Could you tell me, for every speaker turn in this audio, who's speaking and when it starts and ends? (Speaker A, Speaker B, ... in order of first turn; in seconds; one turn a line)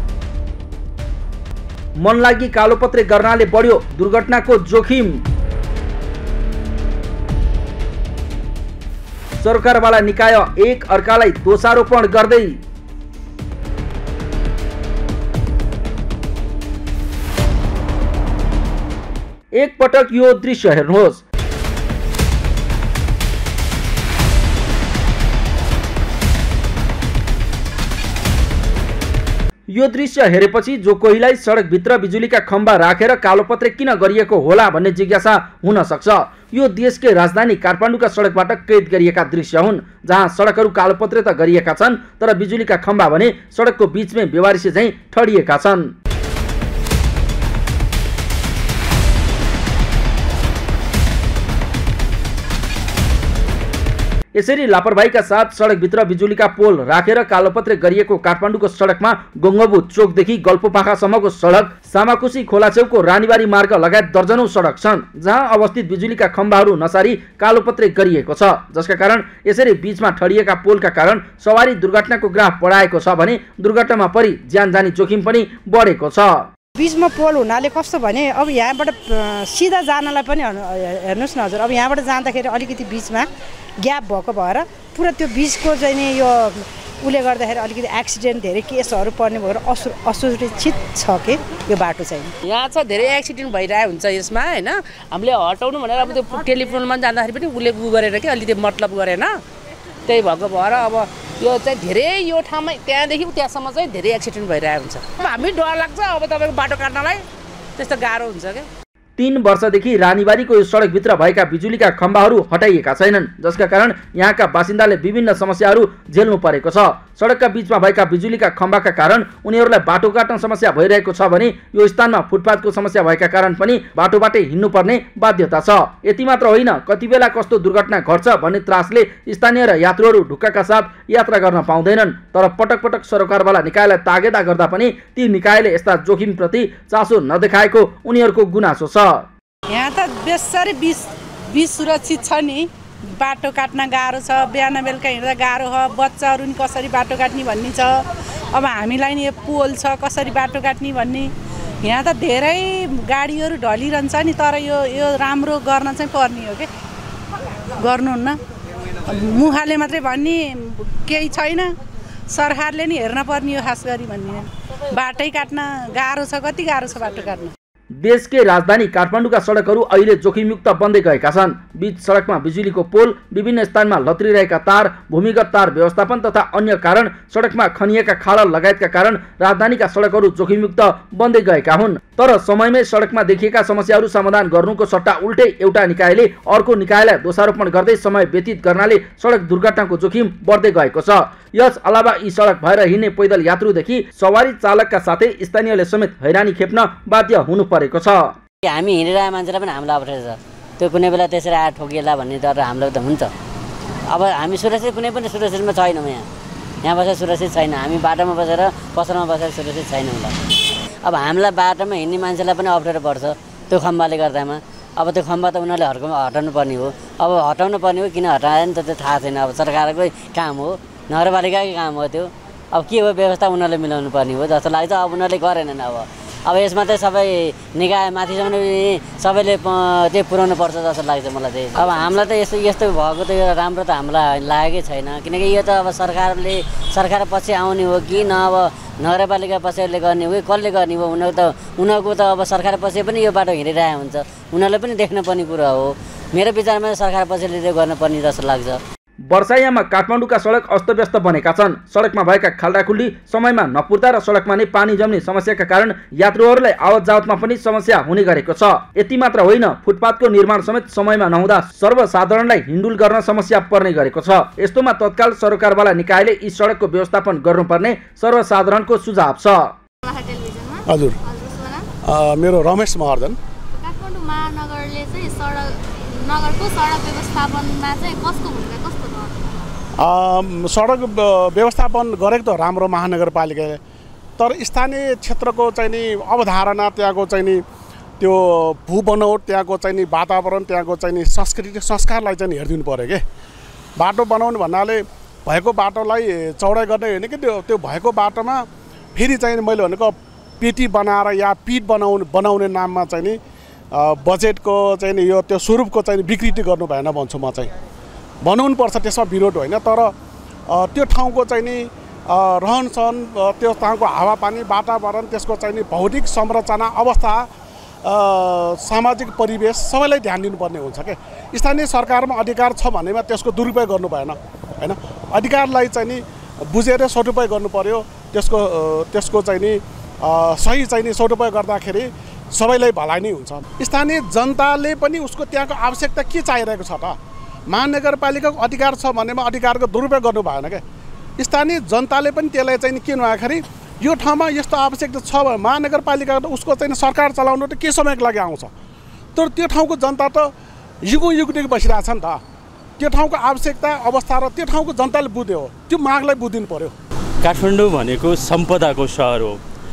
Speaker A: 2.0-5.2
Speaker A: 9.4-12.6
Speaker A: 19.6-21.2
Speaker A: 29.7-45.9
Speaker A: 54.4-76.5
Speaker B: 76.8-83.3
Speaker B: 83.8-92.3
Speaker C: 92.5-99.4
Speaker C: 100.1-107.2
Speaker C: 107.8-108.7
Speaker A: 109.2-139.3
Speaker D: 139.7-141.0
Speaker D: 141.6-142.7
Speaker D: 143.2-147.9
Speaker D: 148.6-151.3
Speaker D: 151.8-156.7
Speaker D: 157.8-158.3
Speaker D: 159.1-160.5
Speaker D: 161.1-161.7
Speaker D: 162.3-164.4
Speaker D: 165.0-167.5
Speaker A: 167.9-198.4
Speaker E: 198.7-203.3
Speaker E: 204.1-206.2
Speaker E: 206.8-210.3
Speaker E: 211.0-248.8
Speaker F: 231.8-232.1
Speaker A: 249.3-269.7
Speaker F: 270.0-271.9
Speaker G: 270.9-271.2
Speaker G: 272.1-273.4
Speaker F: 273.7-279.7
Speaker G: 280.0-283.8
Speaker G: 284.4-287.6
Speaker G: 288.2-293.2
Speaker G: 294.0-298.6
Speaker G: 299.1-303.4
Speaker G: 303.9-307.7
Speaker G: 308.4-310.1
Speaker G: 310.7-317.5
Speaker G: 318.0-337.2
Speaker G: 337.7-340.8
Speaker G: 341.4-348.7
Speaker G: 349.4-350.5
Speaker G: 351.0-352.4
Speaker G: 353.0-356.9
Speaker H: 357.4-359.6